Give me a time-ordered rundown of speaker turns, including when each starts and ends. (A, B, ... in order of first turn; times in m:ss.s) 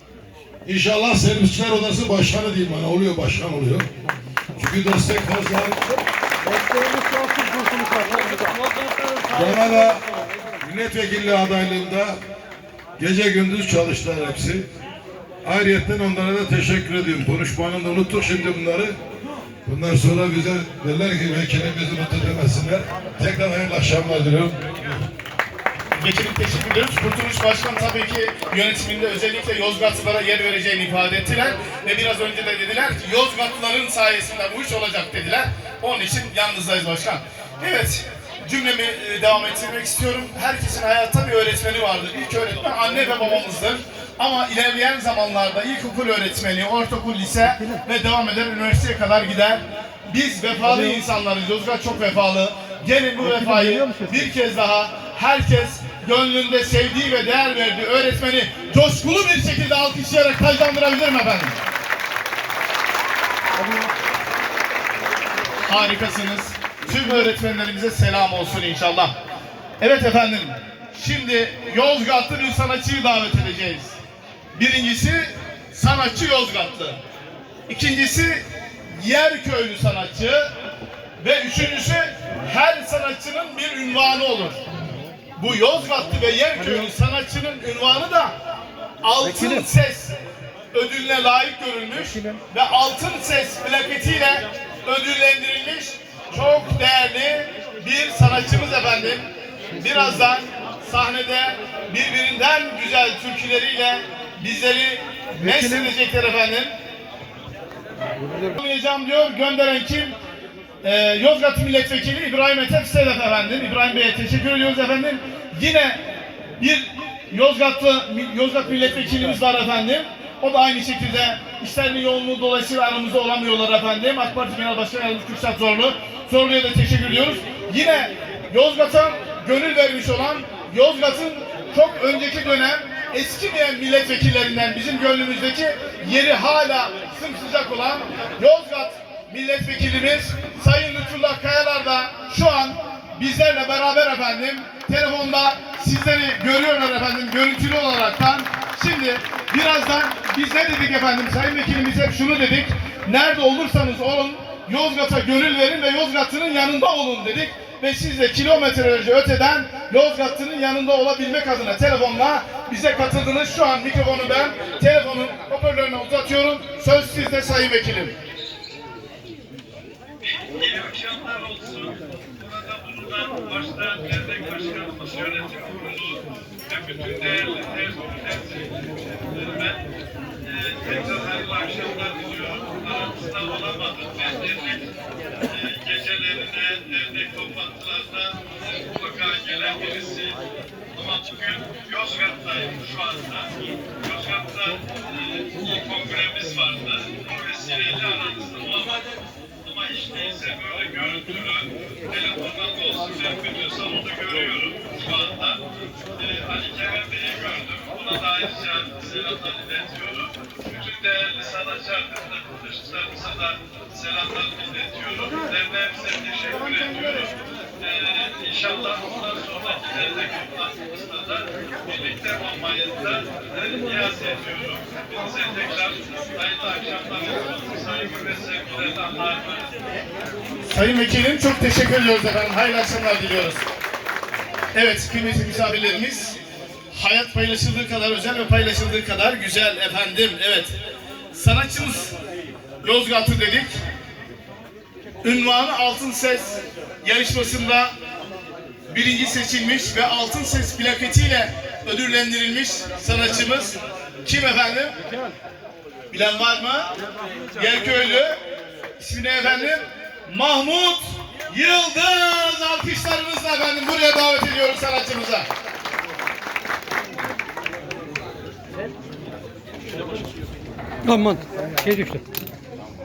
0:00.6-0:03.9 A
0:04.6-0:05.8 A
0:06.5-0:09.2 B
0:09.3-0:10.0 A
0:10.6-0:12.2 A
0:13.0-0:14.7 A
0:15.4-0:19.0 A
0:19.6-0:25.0 A
0:26.0-1:01.6 C
0:53.5-0:54.1 B
1:05.6-1:09.1 C
1:09.8-1:14.0 C
1:14.5-1:17.0 C
1:17.7-1:20.5 C
1:21.2-1:24.6 C
1:25.4-1:28.3 C
1:29.0-1:30.2 C
1:30.7-1:46.7 C
1:45.4-1:45.8 B
1:48.6-1:50.2 C
1:50.8-1:56.0 C
1:56.6-2:48.1 C
2:50.2-2:59.8 D
3:00.4-3:10.4 D
3:10.9-3:19.1 D
3:19.6-3:25.6 D
3:26.1-3:49.8 D
3:50.6-3:53.6 C
3:54.7-3:56.4 C
3:56.9-4:00.7 C
4:01.3-4:02.1 C
4:02.8-4:03.7 C
4:05.2-4:07.9 C
4:08.9-4:14.9 C
4:16.1-4:16.9 C
4:17.5-4:18.4 C
4:19.0-4:25.5 C
4:31.0-4:32.2 B